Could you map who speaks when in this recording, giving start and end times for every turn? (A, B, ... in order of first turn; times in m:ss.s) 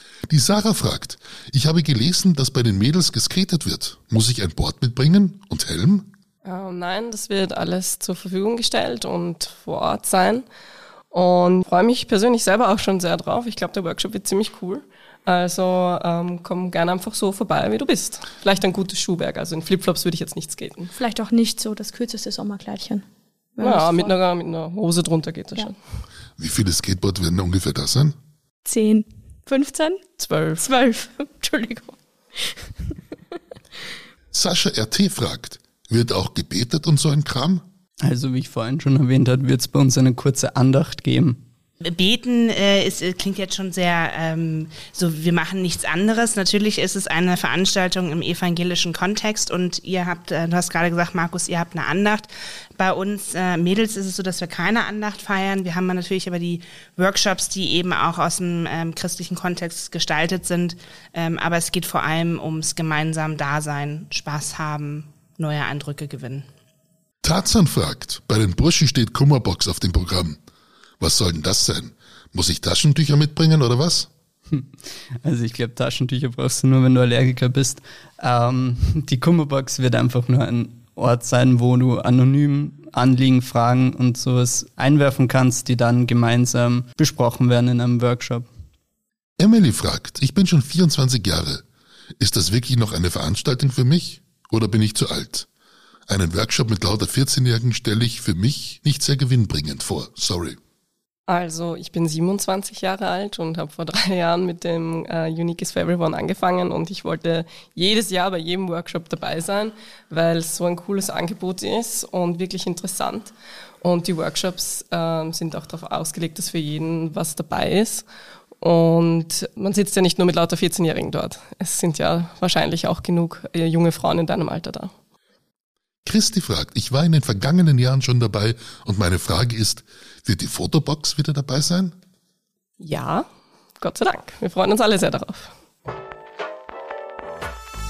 0:00.3-0:06.1 A
0:06.4-0:10.5 B
0:11.1-0:20.9 B
0:20.9-0:23.0 C
0:23.6-0:24.1 C
0:23.6-0:25.8 B
0:26.4-0:28.2 A
0:28.6-0:30.0 C
0:30.2-0:30.6 B
0:30.6-0:32.9 C
0:34.3-0:37.6 A
0:38.0-0:41.4 D
0:41.9-1:06.5 E
1:07.2-1:10.4 A
1:11.0-1:14.1 A
1:15.2-1:28.5 D
1:29.4-1:31.6 A
1:32.2-1:35.5 A
1:36.1-1:40.6 A
1:41.3-1:58.1 B
1:58.6-2:04.9 B
2:06.0-2:12.0 A
2:12.8-2:13.3 B
2:13.8-2:15.5 B